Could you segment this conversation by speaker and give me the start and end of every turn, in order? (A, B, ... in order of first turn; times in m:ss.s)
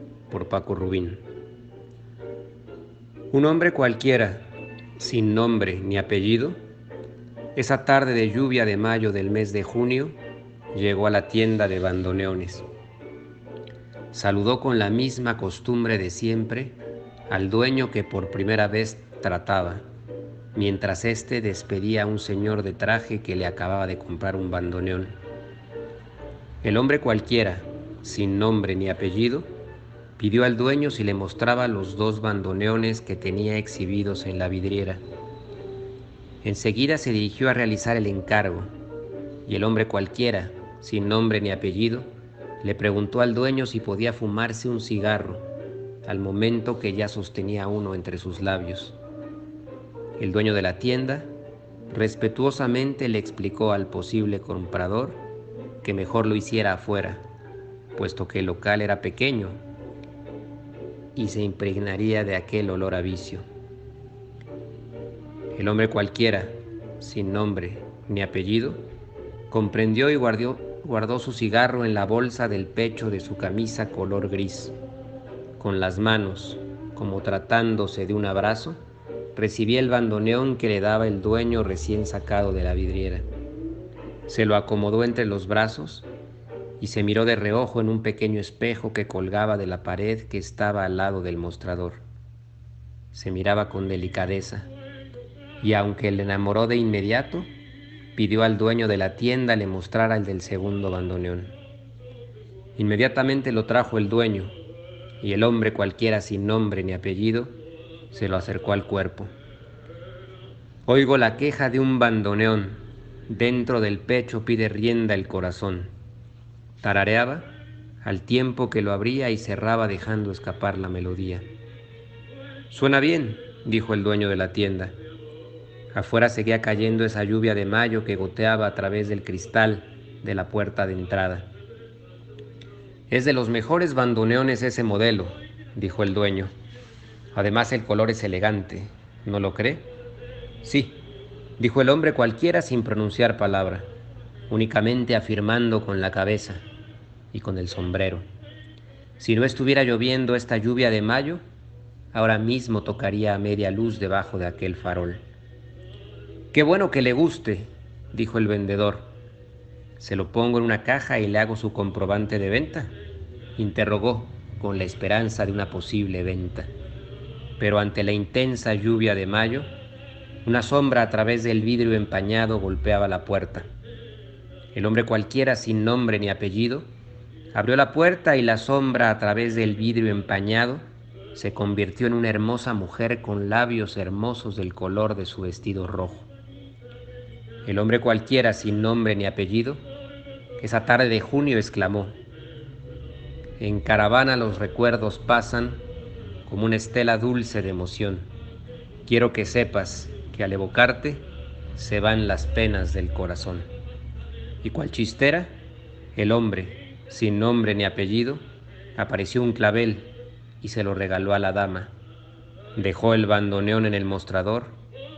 0:00.3-0:01.2 A
0:03.3-0:06.6 A
0:07.6-0:10.2 A
0:10.7-0:12.6 A
0:14.1-0:16.8 A
0:17.3-0:19.8 A
0:20.5-0:25.2 A
0:26.6-0:29.5 A
0:30.2-0:35.0 A
0:36.4-0:38.7 A
0:39.4-0:42.1 A
0:42.6-0:45.5 A
0:46.0-0:49.0 A
0:50.2-0:51.3 A
0:51.9-0:55.2 A
0:55.8-0:57.2 A
0:57.9-0:59.6 A
1:01.1-1:03.4 A
1:05.5-1:08.8 A
1:09.5-1:14.7 A
1:15.6-1:18.8 A
1:19.3-1:23.3 A
1:24.3-1:26.1 A
1:26.8-1:32.0 A
1:33.1-1:34.7 A
1:35.6-1:37.5 A
1:38.1-1:41.5 A
1:42.8-1:44.6 A
1:45.2-1:47.6 A
1:48.1-1:49.3 A
1:50.9-1:55.9 A
1:56.8-2:01.5 A
2:02.7-2:05.0 A
2:05.9-2:11.5 A
2:13.1-2:16.5 A
2:17.3-2:19.9 A
2:20.6-2:21.0 A
2:21.6-2:23.9 A
2:24.5-2:26.6 A
2:27.3-2:28.2 A
2:29.2-2:31.4 A
2:32.1-2:35.2 A
2:36.5-2:39.1 A
2:40.0-2:42.9 A
2:43.6-2:46.7 A
2:47.6-2:49.7 A
2:50.4-2:53.7 A
2:54.7-2:56.9 A
2:57.5-3:06.3 A
3:07.6-3:09.8 A
3:10.6-3:12.2 A
3:13.6-3:15.8 A
3:16.4-3:18.3 A
3:19.0-3:23.7 A
3:24.6-3:25.5 A
3:26.1-3:31.9 A
3:32.8-3:34.8 A